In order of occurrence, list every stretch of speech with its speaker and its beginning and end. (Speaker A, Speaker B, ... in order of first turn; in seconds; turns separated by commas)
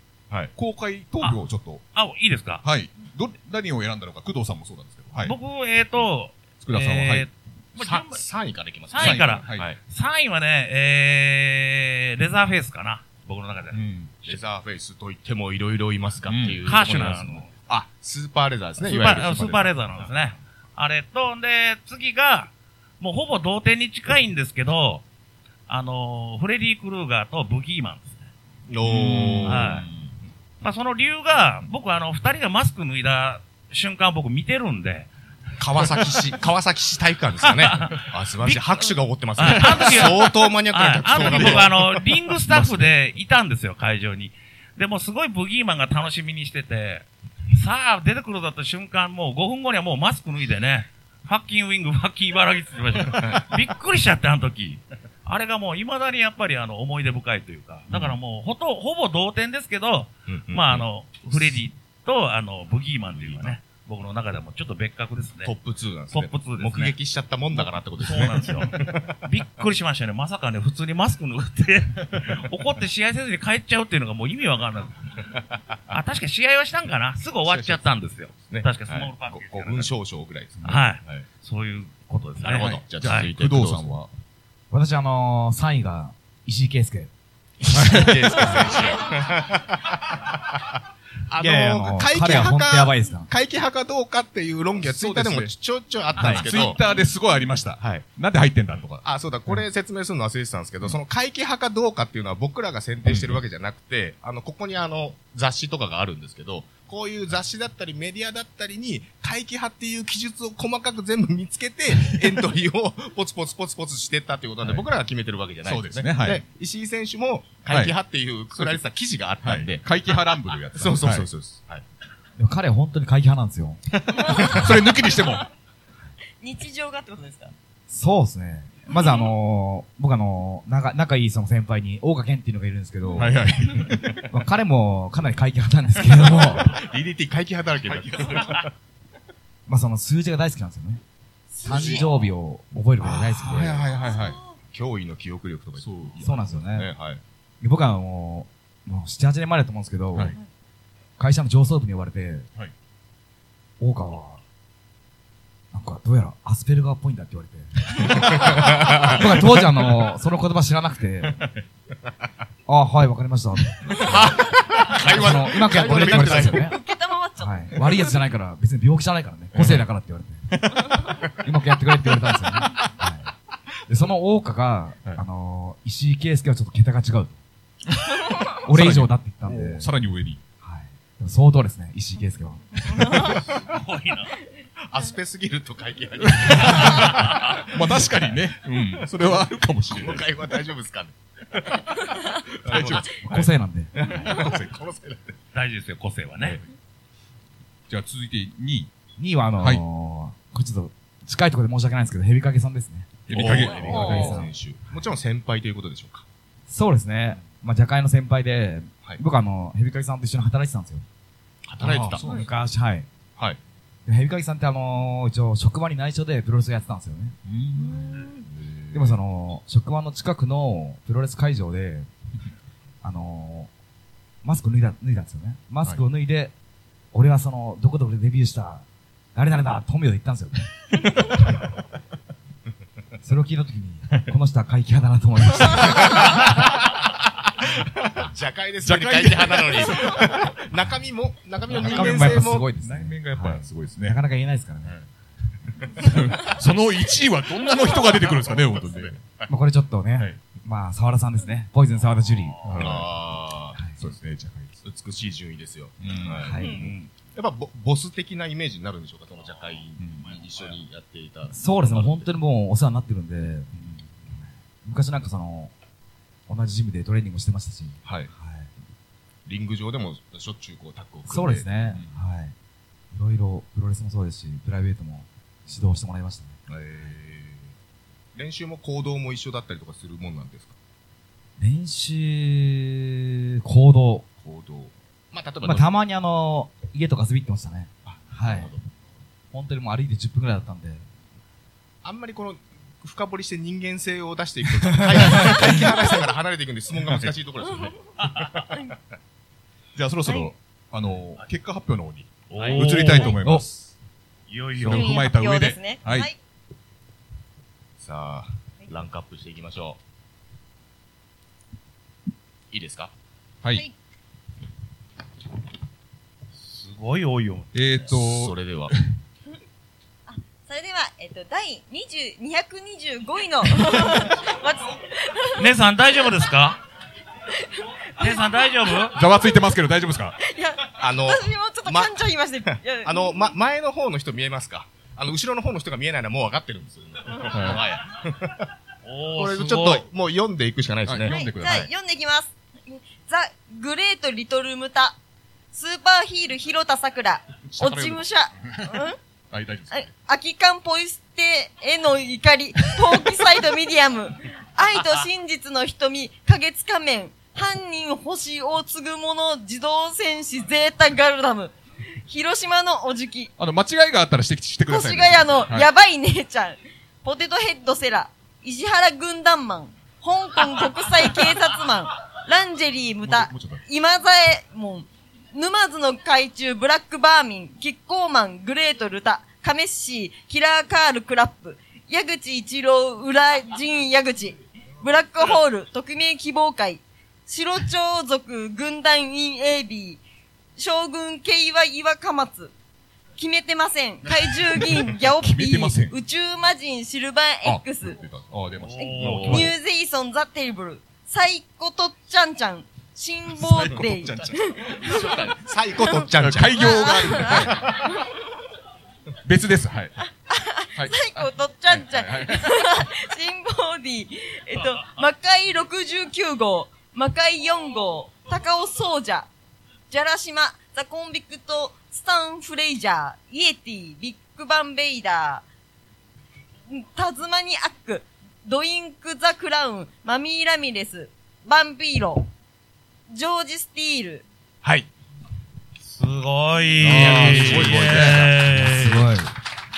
Speaker A: 0.5-1.8, Speaker B: 1.9-2.6, Speaker A: 2.6-5.3, Speaker B: 5.2-8.2, Speaker A: 6.6-7.3, Speaker C: 7.8-9.8, Speaker B: 8.9-14.3, Speaker A: 9.0-9.7, Speaker A: 13.7-14.1, Speaker C: 14.2-20.1, Speaker A: 16.2-16.6, Speaker B: 16.6-17.5, Speaker B: 18.8-25.0, Speaker B: 25.7-28.2, Speaker C: 28.7-29.9, Speaker A: 28.8-30.1, Speaker B: 29.4-29.9, Speaker B: 30.6-35.1, Speaker C: 35.6-42.9, Speaker B: 37.4-65.5, Speaker A: 39.4-39.7, Speaker A: 41.1-41.7, Speaker C: 53.1-53.4, Speaker A: 57.9-58.2, Speaker C: 60.3-60.9, Speaker C: 63.2-63.6, Speaker C: 65.4-69.2, Speaker B: 66.1-66.9, Speaker B: 67.5-75.0, Speaker B: 75.9-79.9, Speaker A: 77.5-77.8, Speaker C: 78.5-81.2, Speaker B: 80.6-83.3, Speaker C: 82.4-83.9, Speaker A: 82.4-84.1, Speaker D: 84.7-87.1, Speaker C: 87.6-90.7, Speaker A: 87.7-88.7, Speaker C: 91.3-96.8, Speaker D: 91.4-93.3, Speaker A: 94.8-95.5, Speaker A: 96.1-99.0, Speaker D: 96.2-96.4, Speaker C: 97.8-98.0, Speaker C: 99.0-119.9, Speaker A: 103.0-103.4, Speaker A: 115.6-116.4, Speaker A: 117.7-117.9, Speaker A: 118.5-118.8, Speaker A: 119.4-121.3, Speaker C: 120.7-121.8, Speaker D: 122.4-123.8, Speaker E: 124.1-125.5, Speaker A: 124.5-125.5, Speaker E: 126.4-127.5, Speaker D: 127.9-133.4, Speaker E: 128.9-129.2, Speaker A: 133.2-134.2, Speaker D: 134.3-136.8, Speaker C: 136.3-138.7, Speaker D: 139.7-141.0, Speaker D: 141.6-143.8, Speaker A: 141.7-142.0, Speaker E: 141.7-142.0, Speaker C: 143.0-143.8, Speaker A: 143.4-144.4, Speaker E: 144.0-144.4, Speaker C: 144.7-147.2, Speaker A: 145.8-146.2, Speaker D: 146.2-146.9, Speaker D: 147.6-150.3, Speaker D: 151.2-152.5, Speaker D: 153.8-154.4, Speaker D: 155.7-161.4, Speaker C: 158.0-159.6, Speaker D: 162.7-164.2, Speaker C: 163.9-166.6, Speaker A: 165.0-166.6, Speaker D: 165.0-166.8, Speaker E: 166.6-168.0, Speaker D: 167.4-170.8, Speaker A: 169.5-169.9, Speaker D: 171.3-173.3, Speaker D: 173.9-177.4, Speaker D: 178.6-179.9, Speaker A: 178.6-180.4, Speaker D: 180.6-183.2, Speaker B: 183.6-184.4, Speaker C: 184.8-188.0, Speaker A: 186.2-190.2, Speaker B: 186.8-187.6, Speaker C: 189.9-191.9, Speaker C: 192.6-193.1, Speaker A: 192.6-193.5, Speaker D: 193.2-193.9, Speaker C: 193.9-195.3, Speaker A: 194.1-194.8, Speaker B: 195.5-196.6, Speaker A: 197.9-198.9, Speaker D: 199.2-205.0, Speaker A: 203.3-204.4, Speaker C: 203.3-206.2, Speaker E: 203.8-204.4, Speaker D: 206.7-211.0, Speaker C: 211.6-212.2, Speaker A: 211.8-212.5, Speaker D: 211.8-213.1, Speaker D: 214.1-217.3, Speaker A: 217.4-218.2, Speaker E: 217.8-218.4, Speaker C: 218.4-219.2, Speaker D: 218.9-222.1, Speaker D: 223.0-223.7, Speaker D: 224.4-226.5, Speaker D: 227.1-230.7, Speaker D: 233.2-236.3, Speaker C: 235.9-236.5, Speaker C: 238.1-242.7, Speaker A: 238.8-240.5, Speaker A: 241.7-244.2, Speaker D: 241.8-244.9, Speaker A: 245.9-249.2, Speaker C: 248.1-249.1, Speaker D: 249.5-252.6, Speaker A: 252.6-253.3, Speaker C: 252.8-253.8, Speaker A: 254.0-254.8, Speaker C: 254.8-262.3, Speaker A: 256.0-256.5, Speaker D: 256.4-256.8, Speaker E: 256.6-256.9, Speaker B: 256.6-257.1, Speaker A: 260.0-260.3, Speaker D: 261.5-263.7, Speaker D: 264.4-265.7, Speaker D: 266.5-268.7, Speaker C: 268.0-268.3, Speaker C: 269.4-271.7, Speaker D: 271.3-272.5, Speaker D: 273.1-276.6, Speaker C: 276.7-277.7, Speaker C: 278.3-280.7, Speaker D: 281.6-284.3, Speaker C: 284.4-285.9, Speaker D: 285.6-288.7, Speaker C: 288.1-289.0, Speaker D: 289.5-291.1, Speaker C: 292.0-298.9, Speaker D: 295.3-295.7, Speaker E: 295.4-295.9, Speaker B: 298.2-298.5, Speaker A: 299.9-303.9, Speaker B: 302.5-303.4, Speaker C: 302.6-303.0, Speaker B: 304.5-305.1, Speaker A: 304.8-306.3, Speaker E: 304.9-306.4, Speaker C: 308.0-310.0, Speaker C: 312.7-313.1, Speaker B: 316.6-317.7, Speaker A: 317.7-319.0, Speaker C: 318.1-318.9, Speaker E: 320.3-325.6, Speaker B: 325.6-326.8, Speaker E: 327.5-328.6, Speaker B: 328.2-329.1, Speaker A: 329.1-330.4, Speaker E: 330.4-333.5, Speaker C: 331.0-332.2, Speaker C: 332.7-338.7, Speaker A: 337.5-337.8, Speaker B: 339.0-340.0, Speaker C: 339.4-341.4, Speaker A: 341.0-341.9, Speaker E: 341.3-345.2, Speaker E: 345.7-349.1, Speaker A: 347.7-350.1, Speaker E: 349.9-361.7, Speaker E: 362.3-363.5, Speaker A: 363.6-365.9, Speaker E: 364.9-390.2, Speaker A: 373.2-373.8, Speaker E: 390.8-392.7, Speaker E: 393.4-398.2, Speaker A: 394.9-396.1, Speaker A: 397.6-399.7, Speaker B: 398.8-399.7, Speaker E: 398.9-405.4, Speaker C: 399.2-399.7, Speaker A: 403.6-404.6, Speaker C: 403.7-408.1, Speaker E: 406.0-407.7, Speaker A: 406.4-408.0, Speaker A: 409.4-410.1, Speaker E: 410.5-419.5, Speaker A: 410.9-412.8, Speaker E: 420.1-425.6, Speaker E: 426.9-432.5, Speaker E: 433.3-434.4, Speaker C: 434.8-435.1, Speaker B: 436.1-439.3, Speaker A: 437.0-438.6, Speaker C: 437.1-437.9, Speaker D: 438.7-439.5